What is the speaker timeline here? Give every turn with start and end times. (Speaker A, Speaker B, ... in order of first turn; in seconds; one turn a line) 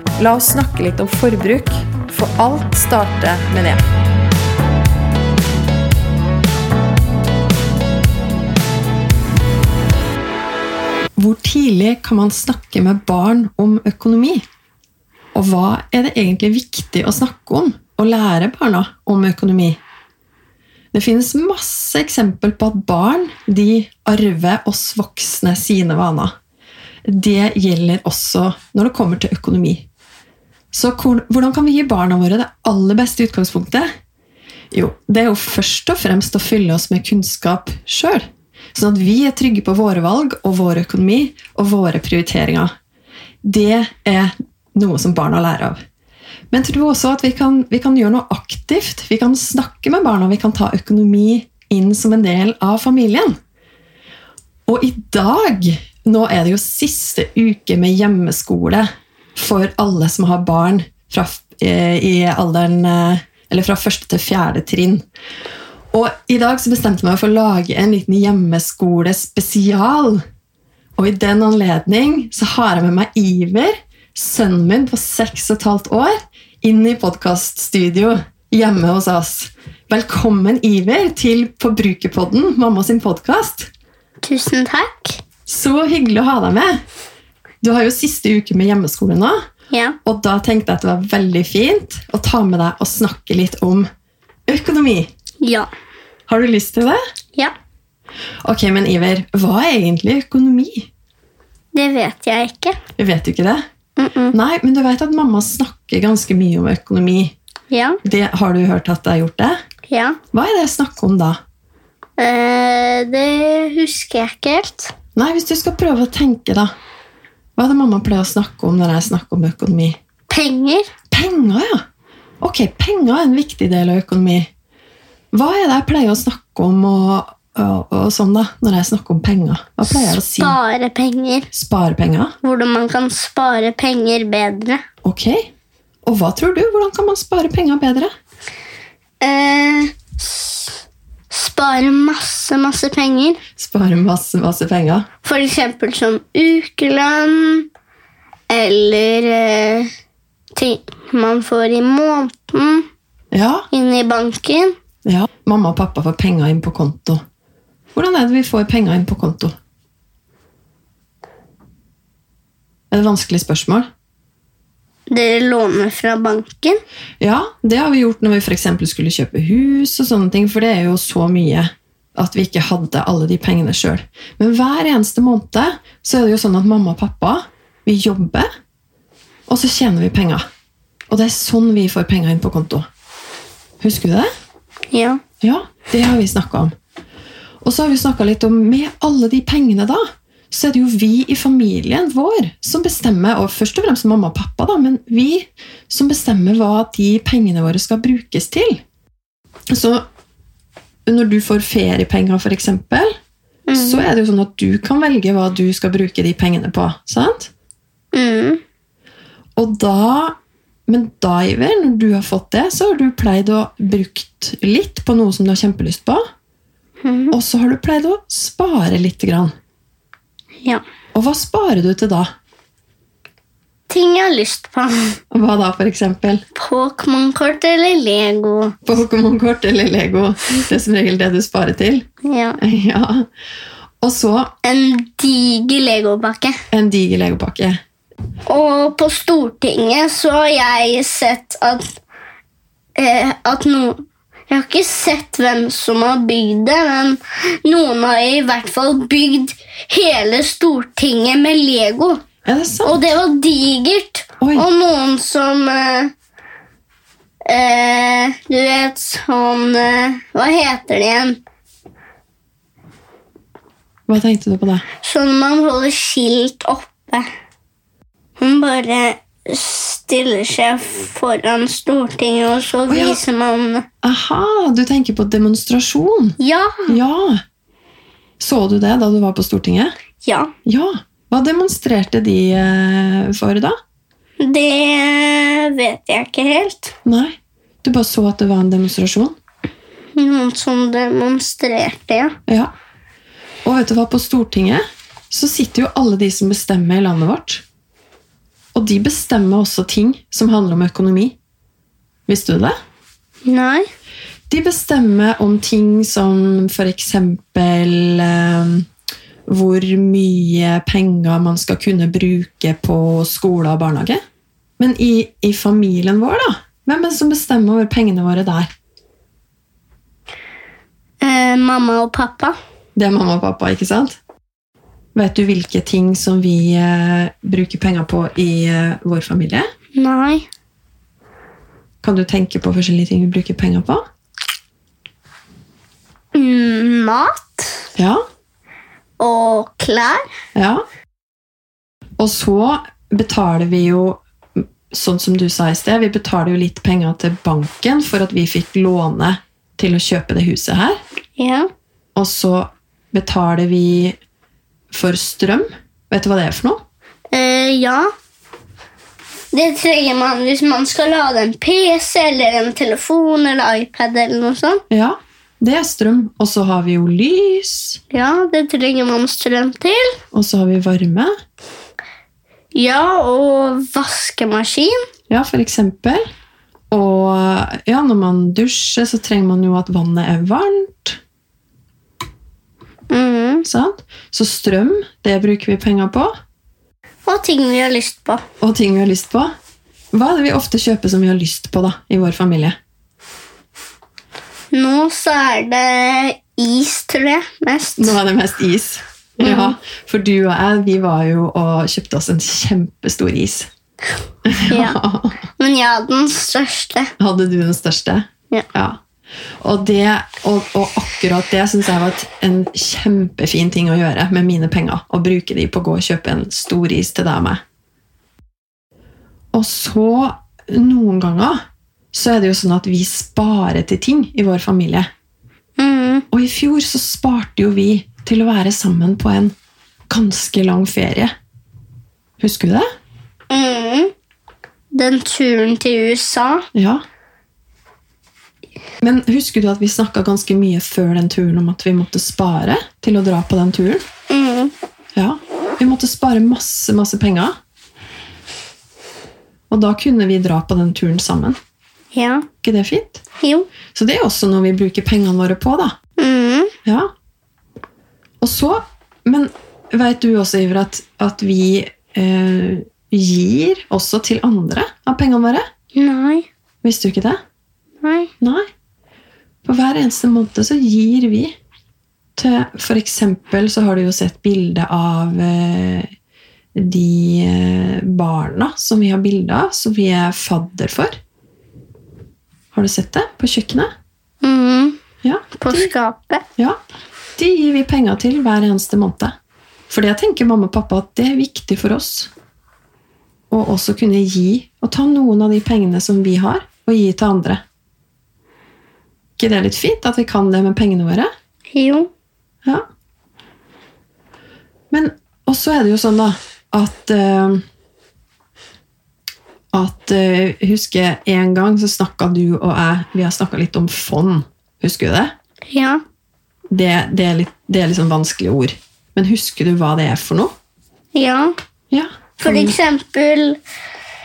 Speaker A: 0.2-3.8
Speaker A: 11.2-14.4
Speaker A: 15.3-19.8
Speaker A: 20.9-26.3
Speaker A: 27.1-29.9
Speaker A: 30.7-33.9
Speaker A: 34.7-42.7
Speaker A: 43.4-45.8
Speaker A: 46.5-53.4
Speaker A: 54.7-65.0
Speaker A: 65.9-70.2
Speaker A: 71.0-83.7
Speaker B: 84.2-85.2
Speaker A: 85.5-86.8
Speaker A: 87.6-89.4
Speaker B: 89.7-90.0
Speaker A: 90.0-93.9
Speaker A: 94.5-95.1
Speaker B: 95.4-95.7
Speaker A: 96.3-97.0
Speaker A: 98.4-100.9
Speaker B: 101.7-102.8
Speaker A: 103.0-103.7
Speaker B: 104.0-104.4
Speaker A: 104.3-107.3
Speaker B: 107.7-108.0
Speaker A: 108.0-109.6
Speaker B: 109.9-110.2
Speaker A: 110.3-111.4
Speaker B: 112.2-114.9
Speaker A: 115.2-116.7
Speaker A: 117.6-120.0
Speaker B: 120.3-120.9
Speaker A: 121.1-121.8
Speaker A: 122.4-124.5
Speaker A: 125.3-130.6
Speaker B: 129.9-131.5
Speaker A: 131.5-132.3
Speaker B: 132.4-134.8
Speaker A: 135.0-135.5
Speaker A: 136.1-138.1
Speaker B: 139.2-140.6
Speaker B: 141.3-143.4
Speaker A: 143.6-145.1
Speaker B: 145.2-147.7
Speaker B: 148.5-149.9
Speaker B: 150.6-152.9
Speaker A: 153.3-153.7
Speaker B: 153.7-154.7
Speaker A: 155.1-157.2
Speaker A: 157.9-159.5
Speaker A: 162.9-163.9
Speaker B: 165.1-166.8
Speaker A: 167.2-178.5
Speaker A: 179.5-180.4
Speaker A: 181.1-182.9
Speaker A: 183.8-184.3
Speaker B: 184.9-185.2
Speaker A: 185.4-186.7
Speaker A: 187.6-198.8
Speaker A: 199.7-200.1
Speaker A: 201.1-203.1
Speaker B: 203.7-204.1
Speaker A: 203.7-207.5
Speaker B: 208.1-208.6
Speaker A: 209.6-216.2
Speaker B: 217.0-217.4
Speaker A: 217.3-219.5
Speaker A: 221.1-222.3
Speaker B: 223.9-225.2
Speaker A: 225.3-226.4
Speaker B: 226.6-228.8
Speaker A: 228.8-232.1
Speaker B: 232.2-232.6
Speaker A: 232.6-233.3
Speaker A: 234.0-234.5
Speaker B: 234.6-236.6
Speaker A: 236.7-237.8
Speaker B: 238.5-241.9
Speaker B: 243.0-244.0
Speaker B: 244.5-252.2
Speaker A: 252.4-253.1
Speaker B: 252.8-256.1
Speaker A: 254.4-254.7
Speaker B: 257.5-261.4
Speaker A: 264.1-264.9
Speaker B: 265.0-267.3
Speaker B: 268.4-273.9
Speaker A: 272.9-273.2
Speaker A: 274.0-276.4
Speaker B: 276.4-277.0
Speaker A: 276.9-277.4
Speaker A: 278.4-279.9
Speaker B: 280.2-280.5
Speaker A: 280.7-283.8
Speaker B: 284.4-286.9
Speaker A: 287.1-289.4
Speaker B: 290.2-292.4
Speaker A: 292.5-292.7
Speaker A: 293.6-297.6
Speaker A: 298.8-301.4
Speaker A: 302.3-302.8
Speaker B: 303.5-303.9
Speaker A: 304.5-308.9
Speaker A: 309.5-314.2
Speaker A: 314.8-318.7
Speaker B: 321.2-322.6
Speaker A: 323.0-324.2
Speaker A: 325.1-329.7
Speaker B: 330.0-330.5
Speaker A: 332.0-334.0
Speaker B: 336.3-337.9
Speaker B: 339.2-340.2
Speaker A: 340.6-340.8
Speaker A: 342.2-351.0
Speaker B: 351.4-351.7
Speaker A: 352.1-354.2
Speaker A: 354.9-356.8
Speaker B: 357.3-358.1
Speaker B: 359.5-364.8
Speaker A: 364.9-368.0
Speaker B: 368.1-370.1
Speaker A: 370.3-371.3
Speaker B: 372.7-375.0
Speaker A: 375.3-376.2
Speaker A: 376.9-381.2
Speaker B: 383.1-383.7
Speaker A: 383.6-386.3
Speaker B: 387.3-388.4
Speaker A: 388.6-389.5
Speaker A: 390.1-392.8
Speaker B: 394.7-398.2
Speaker A: 398.0-403.7
Speaker B: 399.4-399.7
Speaker A: 404.5-405.4
Speaker B: 404.7-405.0
Speaker B: 405.6-407.1
Speaker A: 407.2-409.0
Speaker A: 409.6-417.6
Speaker A: 419.5-421.6
Speaker A: 422.1-425.1
Speaker B: 425.8-426.2
Speaker A: 426.3-429.5
Speaker A: 430.1-431.3
Speaker A: 432.4-432.9
Speaker B: 433.5-434.1
Speaker B: 434.9-436.6
Speaker A: 436.7-437.0
Speaker A: 439.0-444.0
Speaker B: 444.3-444.7
Speaker A: 445.1-447.6
Speaker A: 449.7-451.6
Speaker B: 452.1-452.5
Speaker A: 452.6-453.2
Speaker B: 453.4-453.7
Speaker A: 453.9-456.0
Speaker B: 456.2-456.7
Speaker A: 458.4-465.7
Speaker B: 465.9-466.5
Speaker A: 466.8-467.4
Speaker B: 468.0-468.3
Speaker A: 468.4-468.7
Speaker A: 469.6-471.5
Speaker A: 472.4-476.1
Speaker A: 476.8-481.2
Speaker A: 482.7-483.9
Speaker B: 484.4-485.0
Speaker A: 485.2-485.9
Speaker B: 485.6-486.4
Speaker A: 487.4-489.3
Speaker A: 489.9-492.3
Speaker A: 493.5-497.6
Speaker A: 499.4-501.3
Speaker B: 501.7-502.1
Speaker A: 504.9-507.6
Speaker A: 509.7-515.3
Speaker B: 515.7-516.0
Speaker A: 516.7-520.5
Speaker B: 521.1-521.5
Speaker A: 521.9-522.8
Speaker B: 522.4-523.6